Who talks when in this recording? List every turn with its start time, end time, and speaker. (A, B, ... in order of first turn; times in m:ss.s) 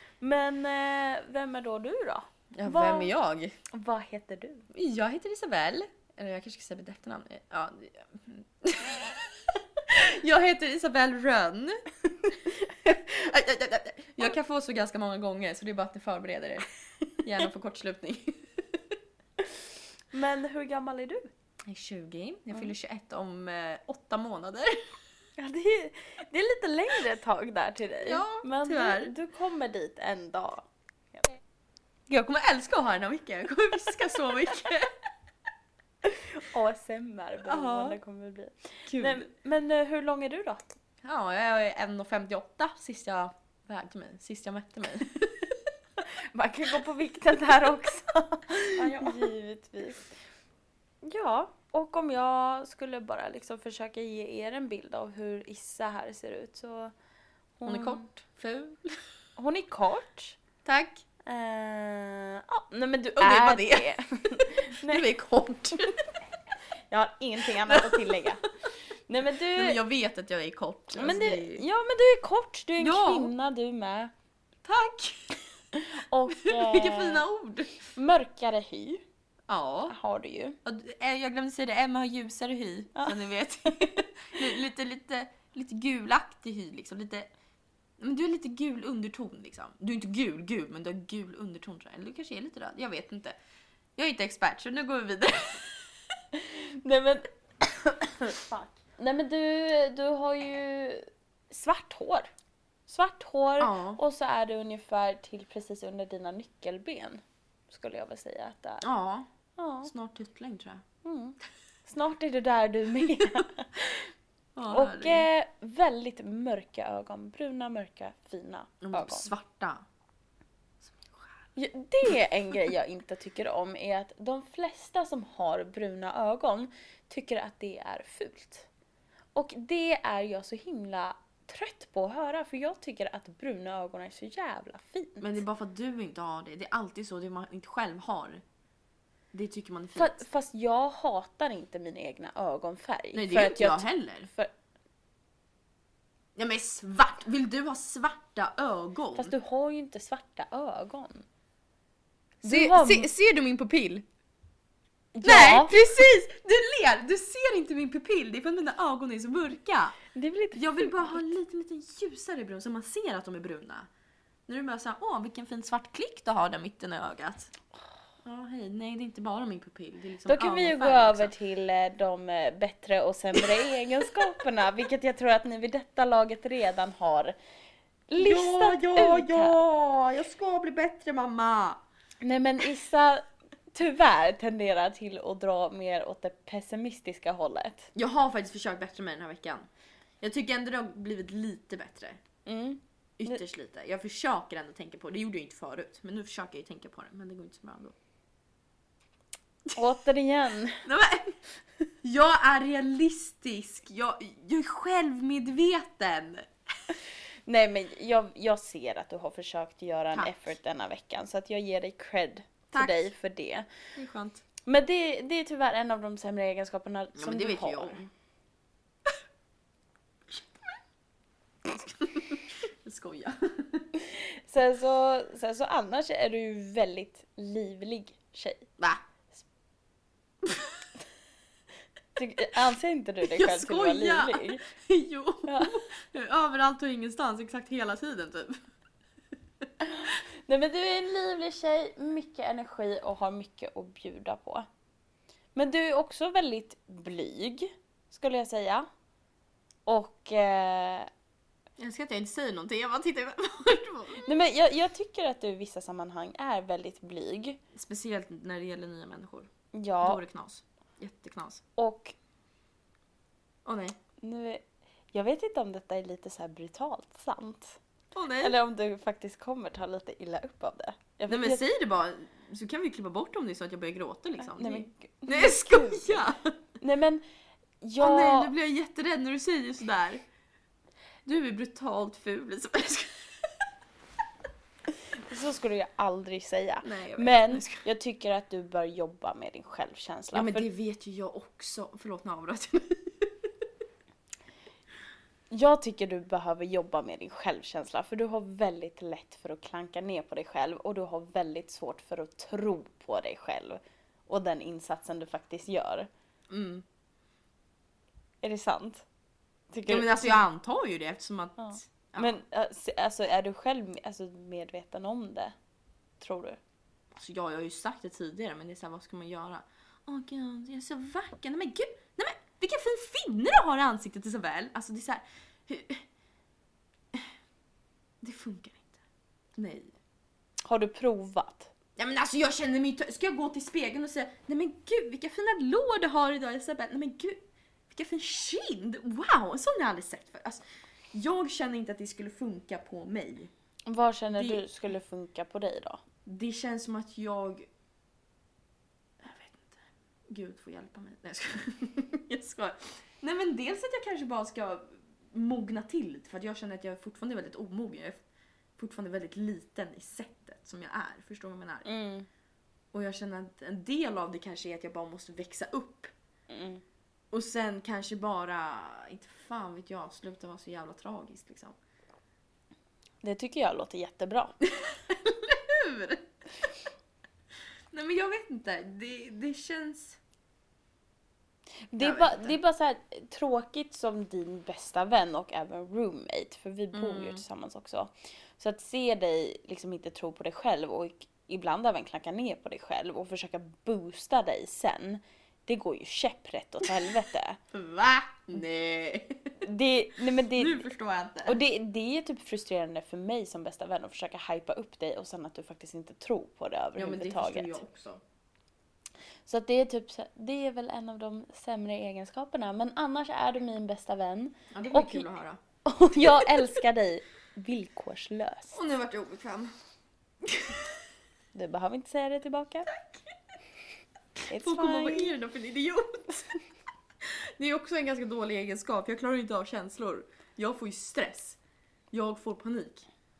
0:00.2-0:03.1 A
0:02.5-0:03.5 B
0:03.7-0:04.7 A
0:04.7-0:16.7 B
0:17.2-0:18.9 B
0:20.1-0:21.3 A
0:21.6-0:24.8 B
0:25.4-0:31.4 A
0:28.0-0:29.1 B
0:32.1-0:34.9 B
0:36.0-0:40.6 A
0:37.4-0:38.0 B
0:38.9-0:39.3 B
0:41.0-0:45.5 B
0:46.0-0:50.0 A
0:48.7-0:49.3 B
0:51.0-0:56.9 A
0:57.6-0:58.1 A
0:57.7-0:59.0 B
0:59.4-1:00.4 A
1:00.6-1:01.0 B
1:01.2-1:05.0 A
1:03.2-1:06.1 B
1:06.9-1:08.4 A
1:07.6-1:08.3 B
1:09.1-1:09.8 A
1:09.5-1:11.6 B
1:11.0-1:14.1 A
1:12.8-1:13.3 B
1:14.6-1:15.4 B
1:15.7-1:17.2 A
1:16.3-1:17.8 B
1:17.8-1:19.0 A
1:19.5-1:19.9 B
1:19.9-1:20.6 A
1:20.6-1:27.3 B
1:28.0-1:33.4 B
1:34.0-1:35.9 B
1:36.3-1:42.3 A
1:42.9-1:48.8 A
1:43.6-1:44.0 B
1:48.8-1:49.3 B
1:49.6-1:49.9 A
1:49.8-1:50.8 B
1:51.0-1:54.1 A
1:53.2-1:53.5 B
1:54.5-1:55.3 B
1:54.7-1:59.3 A
1:58.8-1:59.8 B
2:00.8-2:01.4 B
2:01.6-2:08.7 A
2:09.3-2:15.4 A
2:15.2-2:18.4 B
2:19.3-2:20.2 B
2:20.0-2:24.5 A
2:23.1-2:24.3 B
2:26.4-2:29.3 B
2:29.2-2:31.2 A
2:32.4-2:33.1 A
2:32.4-2:34.0 B
2:35.1-2:35.7 A
2:35.2-2:40.0 B
2:40.1-2:41.4 A
2:40.5-2:43.9 B
2:44.5-2:47.5 B
2:48.2-2:51.3 B
2:50.3-2:57.4 A
2:58.1-2:59.6 A
2:58.2-3:01.8 B
3:02.2-3:07.9 A
3:07.9-3:09.7 B
3:10.2-3:12.2 B
3:12.4-3:13.4 A
3:13.2-3:17.9 B
3:19.7-3:20.8 A
3:20.8-3:21.4 B
3:22.0-3:26.5 B
3:27.5-3:33.7 A
3:30.1-3:30.5 B
3:32.7-3:33.1 B
3:34.0-3:34.4 B
3:34.6-3:38.0 A
3:37.1-3:38.1 B
3:41.6-3:43.9 B
3:44.0-3:48.7 A
3:50.4-3:50.9 B
3:52.2-3:54.6 A
3:53.2-3:58.6 B
3:55.4-3:55.8 A
3:59.8-4:04.6 A
4:05.5-4:08.9 A
4:09.8-4:11.1 A
4:11.8-4:14.3 B
4:14.2-4:17.6 A
4:17.7-4:19.5 B
4:19.7-4:20.2 A
4:20.0-4:21.6 B
4:21.8-4:22.1 A
4:23.6-4:24.0 B
4:24.2-4:27.8 A
4:28.1-4:28.6 B
4:28.4-4:31.6 A
4:31.3-4:36.5 B
4:34.4-4:37.2 A
4:37.8-4:38.5 A
4:38.0-4:40.2 B
4:41.2-4:43.7 B
4:45.2-4:50.6 A
4:46.8-4:47.8 B
4:50.3-4:53.5 B
4:55.5-5:06.1 A
5:06.5-5:06.8 B
5:08.4-5:09.0 A
5:09.7-5:10.4 A
5:09.9-5:12.4 B
5:11.6-5:15.5 A
5:16.2-5:16.6 A
5:17.1-5:26.0 B
5:28.2-5:29.0 B
5:29.6-5:30.0 B
5:30.6-5:31.7 A
5:32.0-5:43.5 B
5:43.9-5:46.0 A
5:44.4-5:44.7 B
5:46.2-5:47.7 B
5:49.2-5:58.2 B
5:58.8-6:01.9 B
6:01.8-6:02.3 A
6:02.9-6:06.1 B
6:06.5-6:06.8 A
6:07.3-6:11.8 B
6:13.2-6:14.5 A
6:14.6-6:16.7 B
6:17.9-6:20.2 B
6:21.9-6:37.6 A
6:22.0-6:22.6 B
6:26.9-6:27.4 B
6:37.7-6:39.6 B
6:39.6-6:40.8 A
6:40.5-6:41.6 B
6:41.4-6:47.8 A
6:47.0-6:48.2 B
6:49.4-6:55.3 A
6:54.7-6:55.6 B
6:55.8-6:58.8 A
6:56.1-6:56.8 B
6:58.7-6:59.7 B
7:00.4-7:00.9 B
7:01.5-7:02.9 A
7:02.9-7:03.2 B
7:04.5-7:05.3 A
7:04.5-7:06.6 B
7:07.2-7:11.6 B
7:12.1-7:13.1 B